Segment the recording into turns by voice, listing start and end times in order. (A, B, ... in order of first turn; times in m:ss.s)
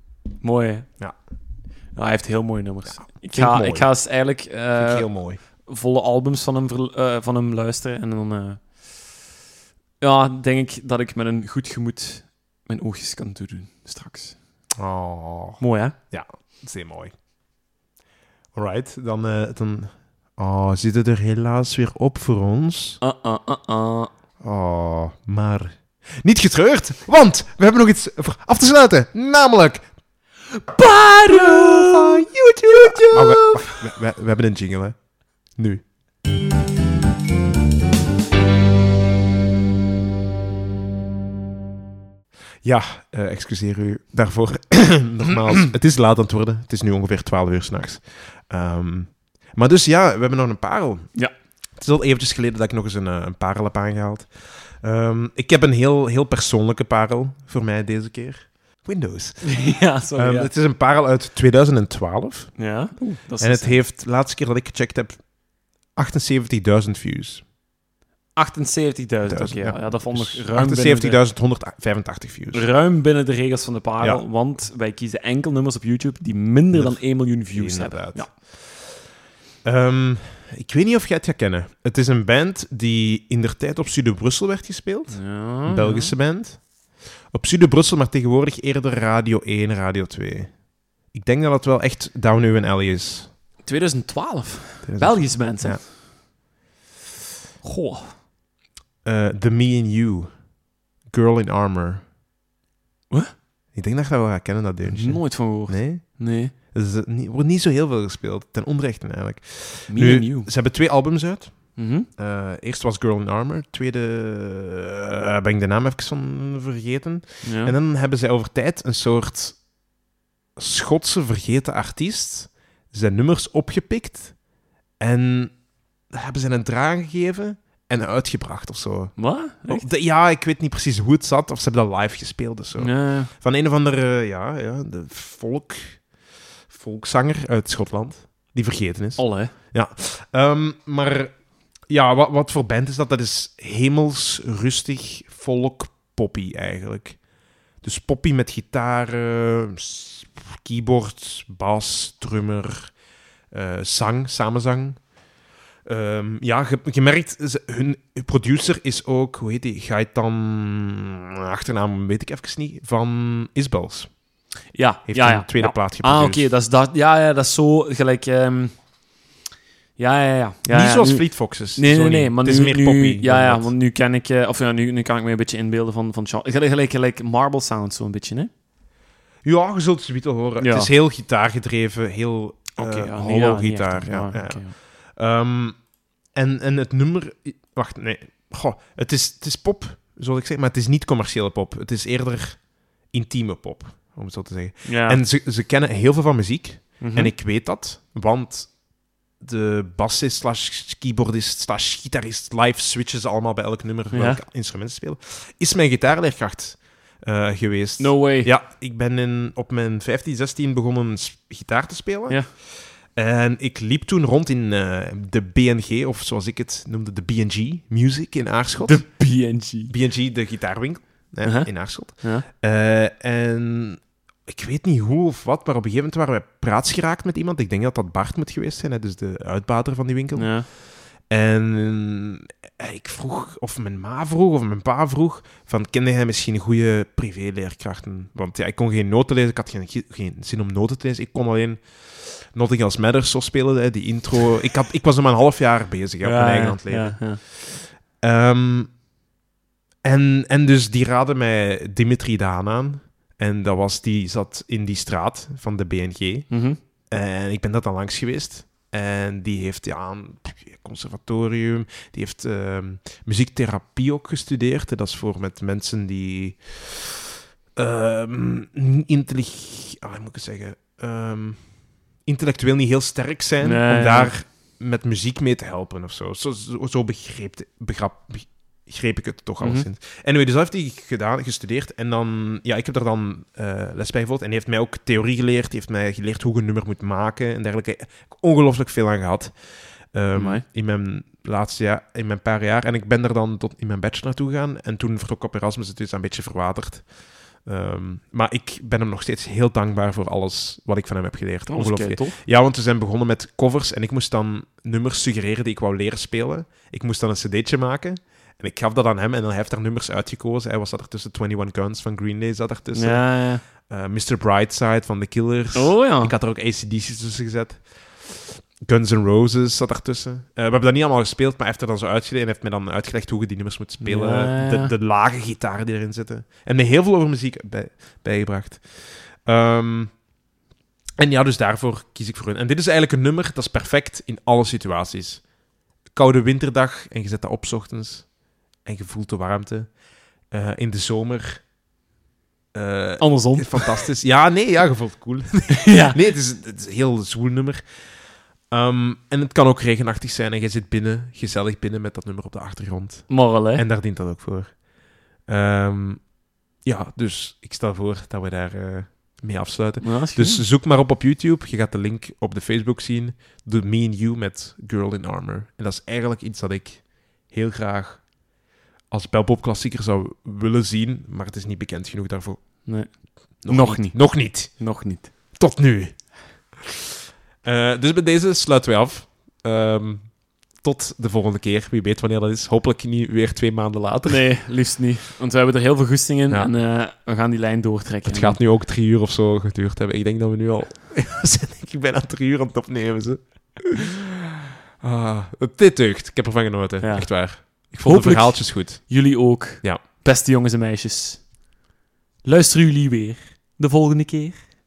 0:00.4-0:01.3 A
0:01.9-0:09.2 A
0:02.9-0:04.0 B
0:04.8-0:05.4 B
0:10.0-0:14.4 A
0:14.8-0:17.1 B
0:15.6-0:16.0 A
0:18.5-0:23.0 B
0:23.0-0:24.1 A
0:24.4-0:29.9 B
0:30.6-0:33.9 A
0:31.3-0:35.8 B
0:42.6-0:51.2 B
0:51.8-0:59.6 B
0:59.4-1:00.5 A
1:00.2-1:05.3 B
1:02.6-1:03.8 A
1:05.9-1:07.4 B
1:08.4-1:11.2 A
1:09.3-1:12.6 B
1:12.5-1:18.3 A
1:16.7-1:18.9 B
1:19.6-1:33.3 B
1:25.1-1:26.1 A
1:33.6-1:35.9 A
1:34.8-1:35.9 B
1:37.6-1:38.1 A
1:39.0-1:40.5 B
1:41.0-1:42.0 B
1:43.7-1:59.7 B
1:44.9-1:46.5 A
1:49.9-1:50.5 A
1:51.8-1:52.1 A
1:57.4-1:57.7 A
2:00.6-2:04.4 B
2:05.0-2:16.2 B
2:09.2-2:09.9 A
2:12.8-2:13.3 A
2:16.7-2:27.2 B
2:19.2-2:19.5 A
2:27.8-2:33.0 B
2:33.5-2:35.0 B
2:35.8-2:44.1 B
2:44.7-2:48.8 A
2:45.0-2:46.5 B
2:50.0-2:58.5 A
2:50.7-2:53.7 B
2:59.4-3:39.3 B
3:00.6-3:00.9 A
3:02.8-3:04.7 A
3:14.8-3:15.2 A
3:17.0-3:17.3 A
3:24.1-3:24.4 A
3:28.0-3:28.5 A
3:38.8-3:39.9 A
3:39.9-4:09.0 B
3:41.4-3:42.5 A
3:50.4-3:50.7 A
4:06.2-4:07.4 A
4:10.0-4:27.1 B
4:16.5-4:16.8 A
4:27.8-5:30.2 B
4:33.6-4:34.4 A
4:39.6-4:39.9 A
4:50.3-4:50.6 A
5:01.7-5:02.4 A
5:12.9-5:13.6 A
5:15.7-5:16.3 A
5:24.0-5:24.9 A
5:31.2-5:35.6 B
5:36.1-5:40.0 B
5:40.5-5:41.7 B
5:42.7-5:48.1 B
5:43.2-5:44.1 A
5:45.7-5:46.2 A
5:48.7-6:08.5 B
5:53.3-5:53.8 A
6:00.0-6:00.7 A
6:09.1-6:16.7 B
6:12.8-6:15.3 A
6:17.6-6:24.4 B
6:24.3-6:28.6 A
6:28.3-6:34.2 B
6:35.0-6:40.0 B
6:37.0-6:41.6 A
6:42.4-6:44.7 A